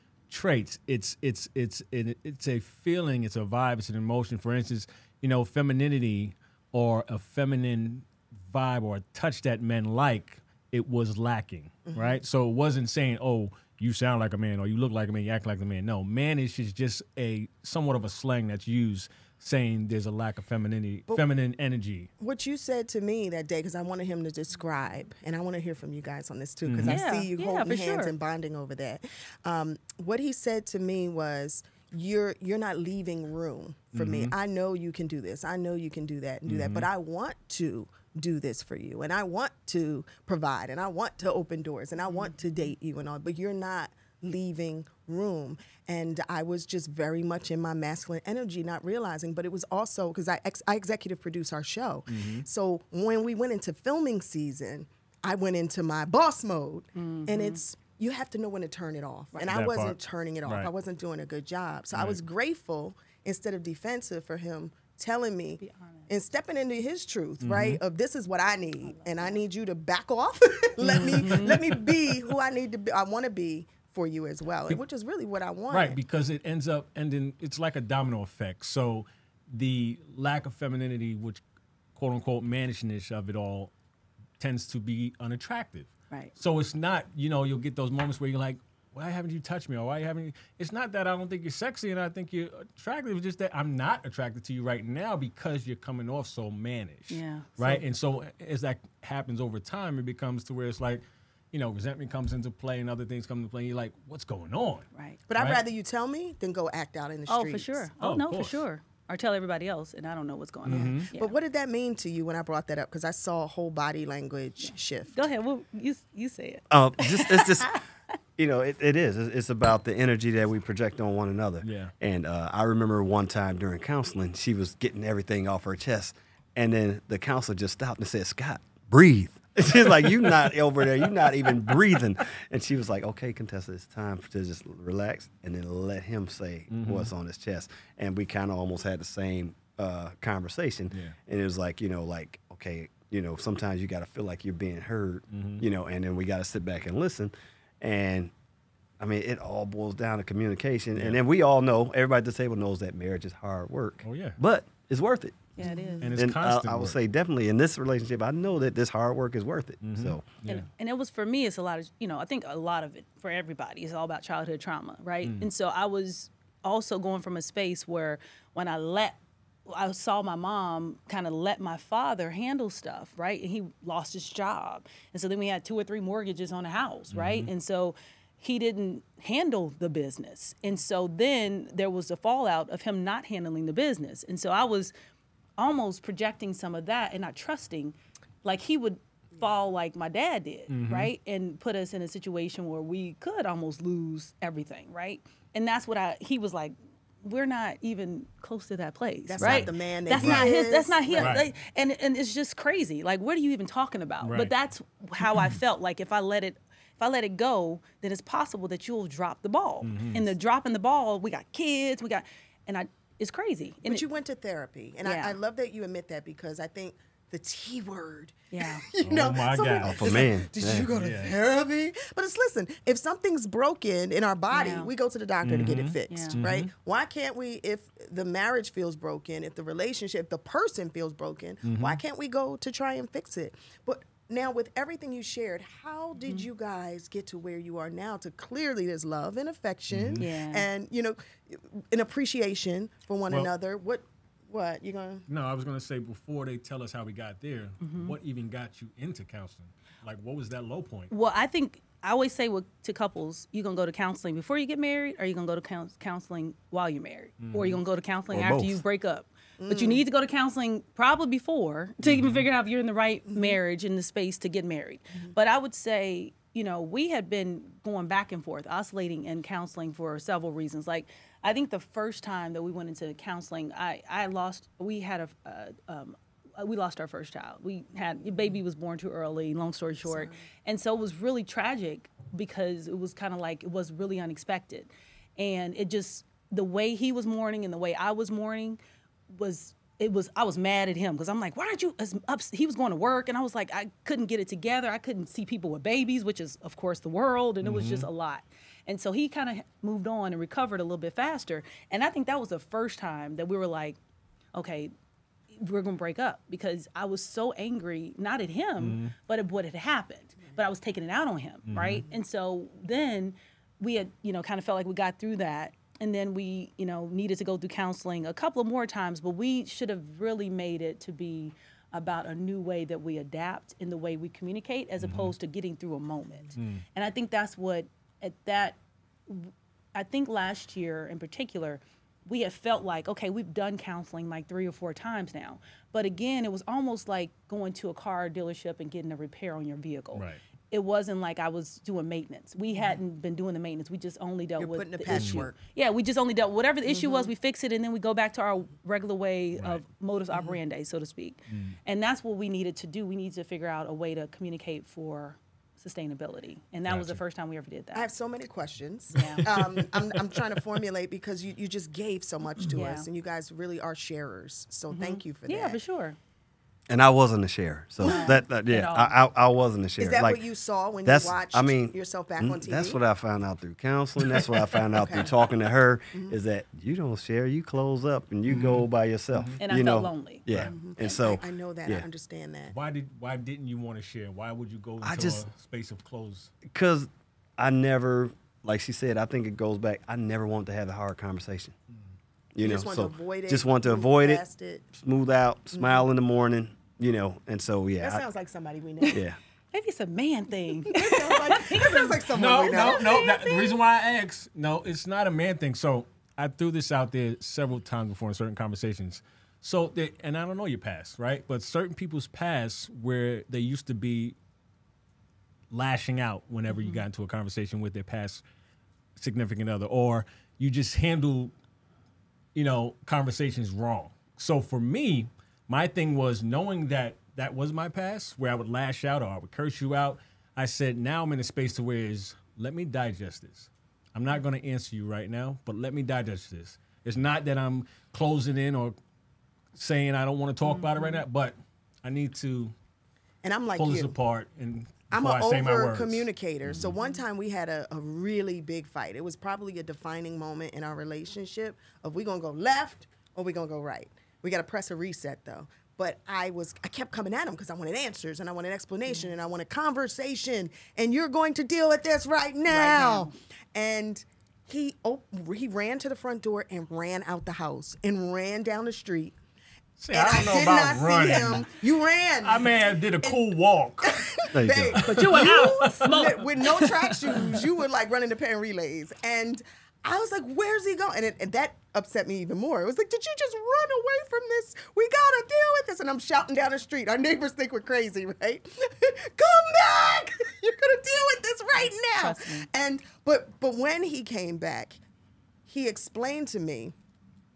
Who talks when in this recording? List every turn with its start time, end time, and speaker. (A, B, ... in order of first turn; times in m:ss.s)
0:00.3-0:22.1 A
0:11.9-0:12.2 B
0:22.2-1:16.0 B
0:26.6-0:27.0 A
0:26.8-0:28.1 C
0:33.9-0:34.3 A
0:36.4-0:36.9 A
0:52.1-0:52.4 A
0:56.9-0:57.6 C
0:59.5-1:00.7 A
1:01.9-1:02.2 A
1:05.6-1:06.1 C
1:07.4-1:07.8 A
1:08.8-1:09.4 C
1:10.8-1:11.6 C
1:10.9-1:11.8 A
1:15.7-1:21.4 A
1:22.0-1:23.7 A
1:24.4-1:45.6 A
1:37.1-1:37.5 C
1:44.9-1:45.2 C
1:45.3-1:47.9 B
1:47.3-1:51.3 C
1:48.0-1:48.6 A
1:50.6-1:51.1 A
1:50.7-1:55.1 B
1:54.6-1:57.8 C
1:56.7-1:57.8 D
1:58.4-2:28.3 D
2:01.6-2:01.9 A
2:16.7-2:17.1 A
2:20.9-2:21.2 A
2:25.3-2:25.6 A
2:29.0-2:35.5 D
2:30.9-2:31.2 A
2:34.0-2:34.4 A
2:35.6-2:36.1 C
2:35.6-2:36.1 B
2:36.0-2:37.0 A
2:36.2-2:40.3 D
2:39.8-2:40.6 A
2:40.4-3:04.9 C
2:45.2-2:45.5 A
2:57.1-2:57.5 A
3:05.6-3:34.0 C
3:10.7-3:11.1 A
3:19.3-3:21.4 B
3:19.4-3:20.5 A
3:21.2-3:21.4 A
3:24.2-3:24.5 A
3:25.2-3:25.6 A
3:29.8-3:30.2 A
3:33.8-4:05.2 B
3:35.0-3:35.4 C
3:38.5-3:38.8 C
3:39.0-3:41.3 A
3:39.8-3:40.9 D
3:44.5-3:44.9 C
3:45.4-3:46.7 A
3:46.1-3:46.4 C
3:51.6-3:52.0 A
3:59.9-4:00.2 A
4:00.2-4:00.7 C
4:05.3-4:11.1 A
4:07.8-4:08.2 C
4:11.1-5:04.0 C
4:17.4-4:17.8 A
4:18.3-4:18.8 D
4:19.6-4:20.0 B
4:22.0-4:22.5 A
4:23.3-4:23.6 B
4:40.0-4:40.4 B
4:57.6-4:58.1 A
5:04.5-5:04.9 C
5:05.5-5:58.1 C
5:08.8-5:09.1 A
5:11.7-5:12.0 A
5:25.0-5:25.3 A
5:26.5-5:26.8 A
5:40.1-5:40.4 A
5:44.6-5:45.6 B
5:45.1-5:45.4 A
5:46.9-5:47.3 B
5:49.6-5:49.8 A
5:50.3-5:50.6 B
5:51.5-5:51.8 A
5:56.9-5:57.2 A
5:57.9-6:05.8 B
5:59.1-5:59.5 C
5:59.2-6:00.0 A
6:02.7-6:03.1 C
6:04.9-6:06.2 C
6:06.9-6:10.4 D
6:08.0-6:08.4 B
6:08.0-6:09.1 C
6:10.0-6:13.0 B
6:11.0-6:22.0 D
6:14.9-6:15.3 B
6:18.5-6:19.6 A
6:19.6-6:21.2 C
6:20.6-6:22.7 B
6:22.7-6:26.5 A
6:25.0-6:25.4 D
6:26.6-6:31.7 D
6:32.5-6:38.2 D
6:32.6-6:34.8 B
6:35.7-6:36.0 B
6:38.0-6:39.2 B
6:39.1-6:39.4 D
6:39.7-6:42.2 C
6:40.8-6:43.1 B
6:42.3-6:54.4 A
6:42.7-6:43.8 C
6:55.7-6:58.4 A
6:56.7-6:57.0 C
6:59.2-7:01.5 A
7:02.5-7:19.0 A
7:19.7-7:22.7 A
7:20.7-7:21.2 C
7:23.4-7:24.1 B
7:23.8-7:26.9 A
7:25.1-7:49.4 B
7:39.1-7:39.3 C
7:42.7-7:43.3 C
7:50.0-7:51.7 A
7:50.1-7:53.4 B
7:52.4-7:56.1 A
7:54.0-8:15.0 B
7:54.5-7:55.0 D
7:55.0-7:57.6 C
8:12.1-8:12.7 C
8:15.7-8:16.9 B